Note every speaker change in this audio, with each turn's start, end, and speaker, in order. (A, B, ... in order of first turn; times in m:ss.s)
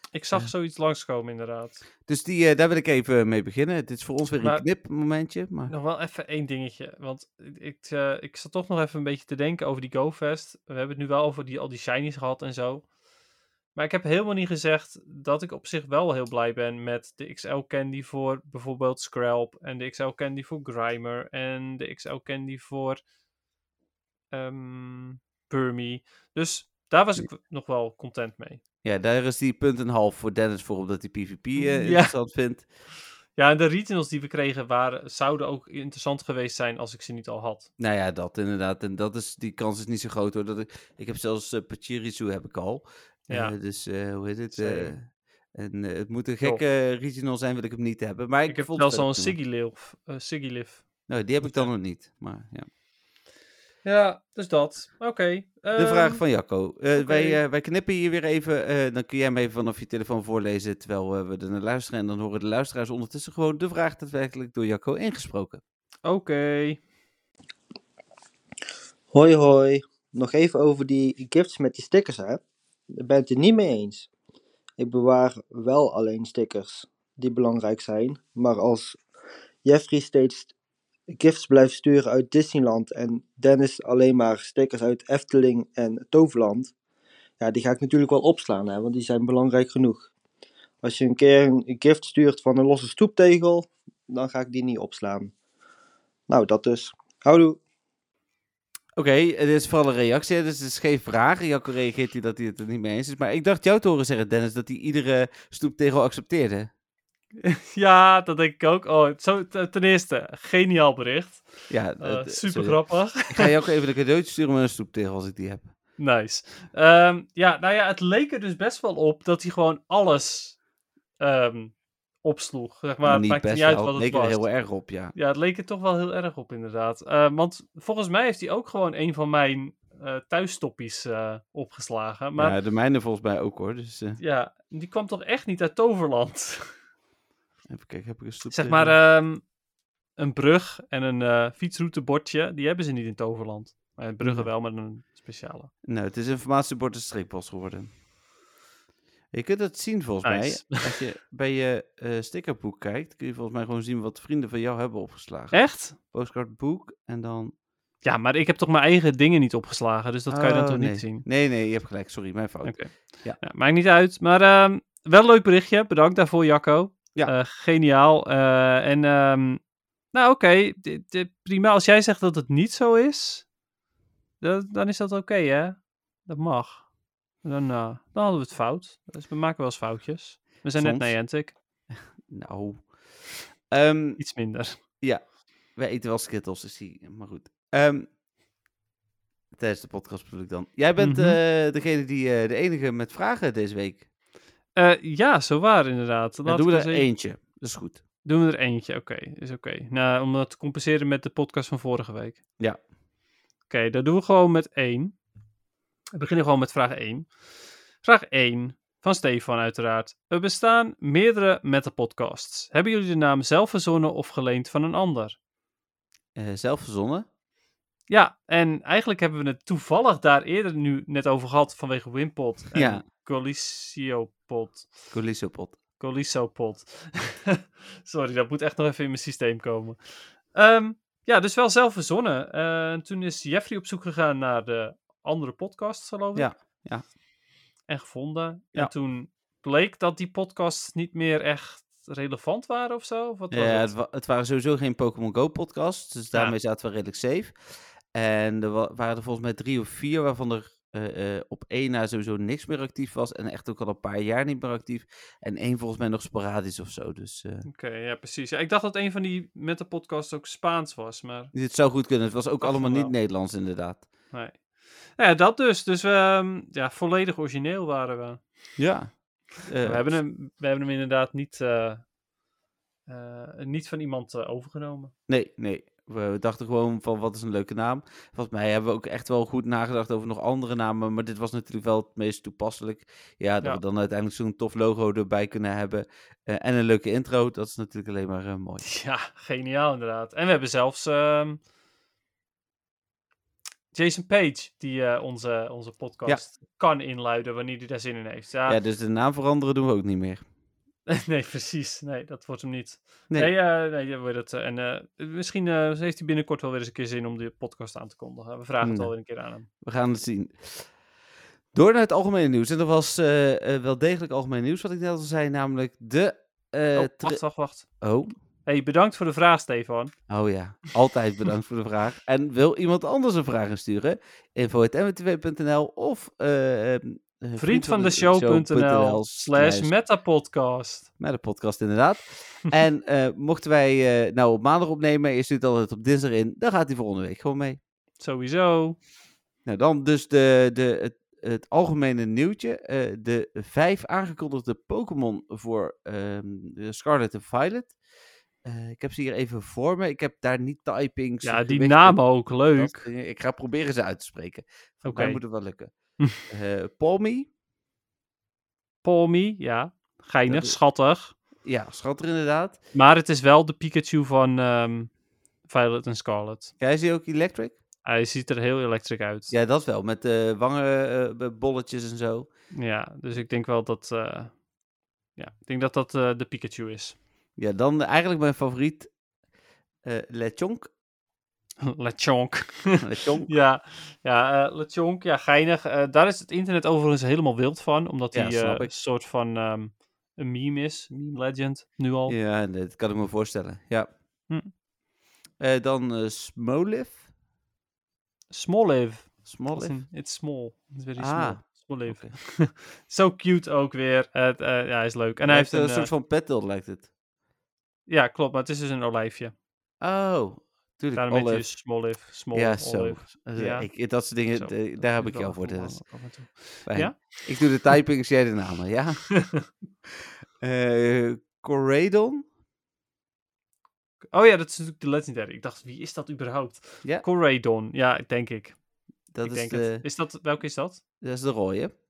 0:00.1-0:01.8 A
0:02.1-0:05.7 B
0:04.4-0:04.6 A
0:05.7-0:12.9 A
0:13.8-0:23.0 A
0:24.3-0:28.6 A
0:28.8-0:32.7 B
0:31.6-0:32.2 A
0:33.4-0:37.7 A
0:37.8-0:49.4 B
0:43.3-0:43.6 A
0:44.5-0:44.9 A
0:48.5-0:51.7 A
0:51.1-0:52.7 B
0:53.8-0:56.2 A
0:55.8-1:05.6 B
0:57.0-0:57.4 A
1:06.0-1:06.8 A
1:09.1-1:12.4 C
1:13.0-1:14.1 C
1:14.8-1:19.0 C
1:19.6-1:20.5 C
1:21.1-1:26.7 C
1:27.4-1:30.1 C
1:30.8-1:35.3 C
1:36.3-1:37.6 C
1:39.0-1:46.7 B
1:47.4-1:53.5 A
1:51.7-1:55.7 B
1:56.0-2:00.6 A
2:01.2-2:04.6 A
2:03.0-2:05.2 B
2:05.2-2:12.6 A
2:12.4-2:14.2 B
2:14.2-2:16.8 A
2:17.7-2:19.0 B
2:18.5-2:19.5 A
2:20.2-2:25.7 A
2:24.2-2:24.5 B
2:25.8-2:27.9 B
2:29.3-2:37.5 B
2:30.2-2:31.0 A
2:35.5-2:36.0 A
2:38.0-2:41.2 A
2:40.3-2:43.4 B
2:42.6-2:49.6 A
2:50.1-2:53.5 A
2:54.4-2:56.9 A
2:57.4-3:01.6 A
3:00.8-3:01.2 B
3:02.2-3:04.2 B
3:04.2-3:04.8 A
3:05.0-3:08.1 B
3:09.5-3:14.1 B
3:11.0-3:11.4 A
3:14.8-3:17.1 A
3:16.5-3:18.0 B
3:18.2-3:22.4 A
3:23.7-3:25.2 A
3:26.1-3:27.3 A
3:28.0-3:35.4 A
3:36.4-3:37.3 B
3:38.1-3:45.0 A
3:42.7-3:43.0 B
3:45.1-3:45.8 B
3:46.0-3:56.5 A
3:56.4-3:57.1 B
3:57.9-4:03.9 A
4:03.5-4:17.7 B
4:17.6-4:21.5 A
4:21.5-4:24.1 B
4:22.6-4:23.1 A
4:24.3-4:28.8 A
4:28.8-4:30.2 B
4:29.8-4:32.1 A
4:33.1-4:35.1 A
4:35.3-4:48.9 B
4:48.8-4:51.6 A
4:53.9-4:58.8 A
4:58.7-5:00.4 B
5:01.1-5:09.7 A
5:08.8-5:09.2 B
5:09.7-5:11.0 B
5:11.7-5:18.3 B
5:17.0-5:18.0 A
5:18.6-5:20.1 A
5:20.3-5:30.0 B
5:27.6-5:31.1 A
5:31.2-5:37.8 B
5:38.2-5:39.0 A
5:39.6-5:48.0 B
5:48.6-5:57.5 B
5:51.4-5:53.1 A
5:55.0-5:55.4 A
5:59.0-6:01.4 A
6:00.5-6:00.8 B
6:01.6-6:02.8 B
6:02.9-6:05.1 A
6:05.6-6:06.7 A
6:06.8-6:07.8 B
6:08.0-6:09.5 A
6:09.5-6:12.5 B
6:12.7-6:14.6 A
6:15.4-6:17.2 A
6:17.6-6:19.1 B
6:20.0-6:20.9 B
6:21.8-6:32.4 A
6:23.0-6:23.5 B
6:28.3-6:28.9 B
6:32.3-6:34.1 B
6:35.6-6:37.2 B
6:38.5-6:46.1 A
6:39.4-6:40.0 B
6:41.2-6:42.4 B
6:45.4-6:47.1 B
6:48.1-6:49.5 A
6:50.0-6:56.2 B
6:51.1-6:57.5 A
6:56.8-6:59.5 B
7:00.6-7:02.5 B
7:04.3-7:08.8 A
7:09.3-7:10.0 B
7:09.4-7:11.0 A
7:11.2-7:11.9 B